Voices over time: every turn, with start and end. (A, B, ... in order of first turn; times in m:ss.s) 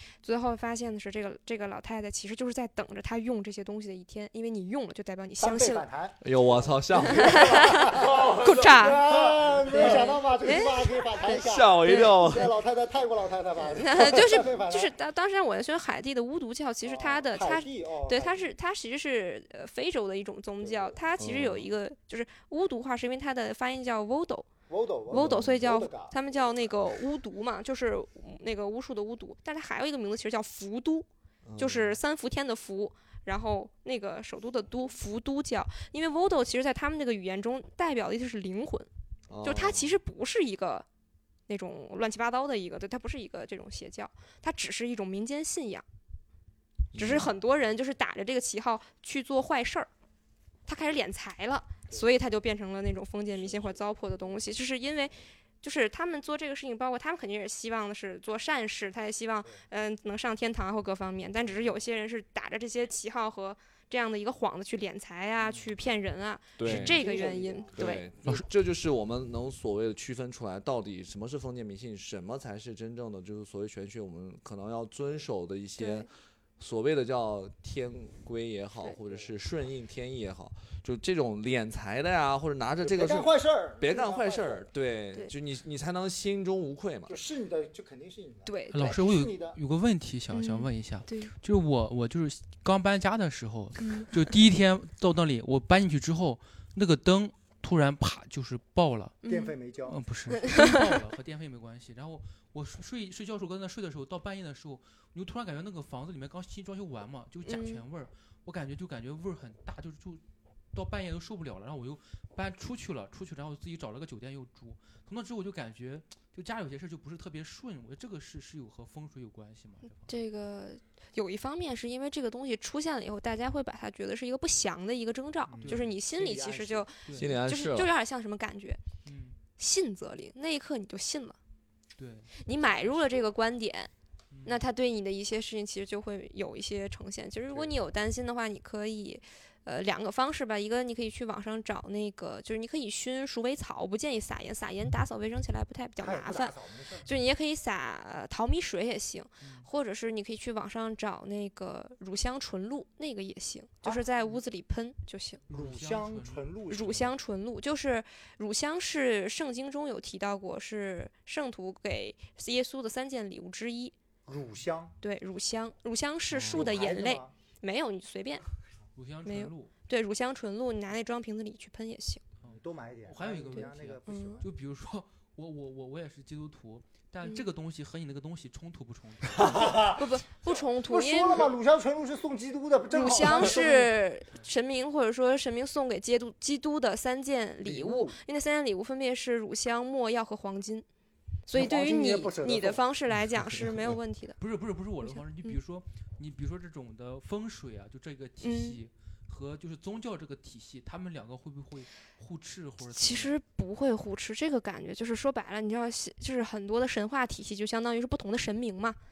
0:00.2-0:05.8 A
0:05.4-0:15.0 B
0:06.2-0:10.0 C
0:07.1-0:12.2 A
0:11.3-0:12.5 C
0:13.8-0:24.5 A
0:16.8-0:18.5 B
0:20.6-0:21.0 B
0:21.2-0:21.7 C
0:24.7-0:26.2 B
0:25.1-0:31.1 A
0:25.2-0:25.5 C
0:31.4-0:32.0 C
0:31.6-0:38.9 A
0:39.3-0:40.0 C
0:39.4-0:40.8 A
0:41.5-0:45.8 A
0:46.9-0:47.3 C
0:47.0-0:49.9 A
0:50.6-1:08.1 A
0:53.4-0:53.8 B
1:01.4-1:01.7 B
1:05.4-1:05.7 B
1:06.6-1:07.0 C
1:06.6-1:08.3 B
1:07.8-1:16.1 C
1:15.8-1:16.1 A
1:16.6-1:27.1 C
1:19.0-1:19.3 B
1:22.8-1:24.7 B
1:27.1-1:29.6 B
1:28.4-1:29.0 A
1:28.7-1:39.2 D
1:30.3-1:31.3 A
1:33.8-1:34.1 A
1:39.2-1:39.5 A
1:39.2-1:40.0 B
1:39.9-1:50.2 D
1:40.4-1:40.8 A
1:47.4-1:47.8 A
1:50.7-2:00.2 D
2:00.0-2:08.8 A
2:05.5-2:06.9 B
2:05.6-2:05.9 D
2:07.0-2:07.4 D
2:07.2-2:07.9 C
2:09.0-2:09.4 D
2:09.6-2:11.4 A
2:12.0-2:12.3 D
2:12.4-2:13.9 A
2:14.3-2:14.6 D
2:14.4-2:26.5 A
2:26.0-2:27.1 B
2:27.0-2:35.4 A
2:29.4-2:29.7 D
2:35.5-2:36.4 D
2:35.5-2:37.1 B
2:36.7-2:43.9 A
2:44.2-2:45.0 B
2:45.0-2:48.4 A
2:46.3-2:46.6 C
2:46.5-2:47.3 B
2:49.0-2:49.7 D
2:49.2-2:52.2 A
2:52.4-2:59.8 D
2:52.4-2:54.5 B
2:53.6-2:54.4 A
2:59.4-3:03.9 B
2:59.4-3:01.5 A
3:02.9-3:10.8 A
3:07.6-3:08.2 B
3:11.4-3:14.4 A
3:11.5-3:12.8 B
3:14.4-3:23.3 D
3:15.0-3:15.6 A
3:18.4-3:18.8 A
3:22.9-3:29.0 A